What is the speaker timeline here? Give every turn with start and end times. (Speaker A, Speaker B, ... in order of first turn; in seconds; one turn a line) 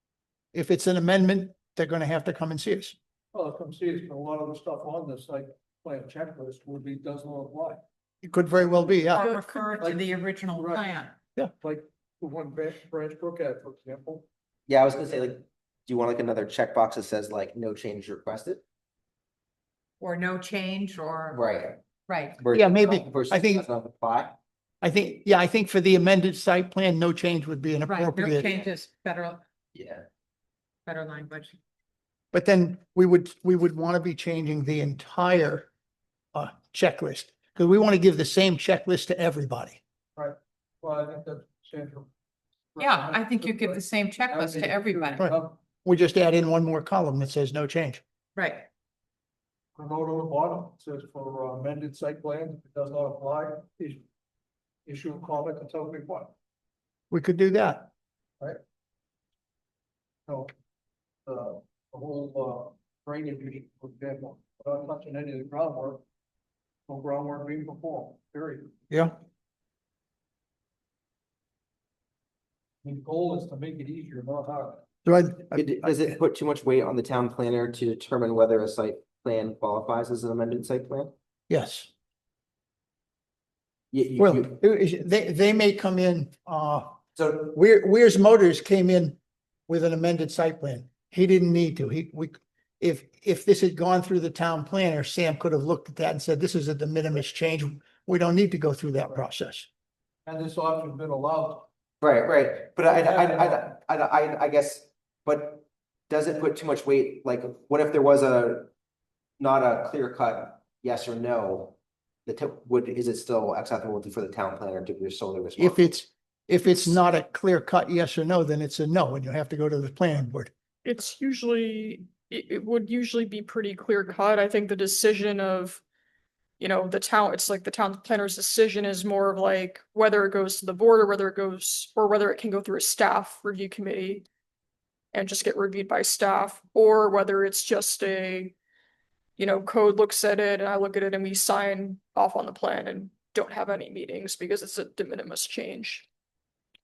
Speaker A: 0.5-3.0
Speaker B: 3.3-7.8
Speaker A: 8.2-9.3
Speaker C: 9.0-11.1
Speaker B: 9.2-11.0
Speaker B: 11.6-14.2
Speaker D: 14.7-18.6
Speaker C: 20.0-21.5
Speaker D: 21.3-21.8
Speaker C: 22.1-22.4
Speaker D: 22.4-24.4
Speaker A: 22.5-23.7
Speaker A: 24.8-28.5
Speaker C: 27.9-29.4
Speaker D: 29.8-30.1
Speaker C: 30.9-31.6
Speaker A: 32.3-35.7
Speaker A: 36.3-39.8
Speaker B: 40.2-42.1
Speaker B: 42.8-45.6
Speaker C: 42.8-45.3
Speaker A: 45.2-48.0
Speaker C: 48.4-48.7
Speaker B: 49.8-54.0
Speaker B: 54.9-56.3
Speaker A: 57.1-57.9
Speaker B: 61.3-66.0
Speaker B: 66.9-68.7
Speaker A: 68.9-69.2
Speaker B: 72.8-74.9
Speaker A: 75.0-76.2
Speaker D: 75.6-81.1
Speaker A: 81.5-81.9
Speaker D: 83.9-84.5
Speaker A: 84.2-99.7
Speaker D: 87.2-87.5
Speaker B: 100.2-101.7
Speaker D: 102.0-108.7
Speaker B: 102.9-103.7
Speaker D: 109.4-115.8
Speaker A: 115.6-120.5
Speaker E: 120.8-125.8
Speaker E: 126.6-134.2
Speaker E: 135.1-138.5
Speaker E: 139.4-146.1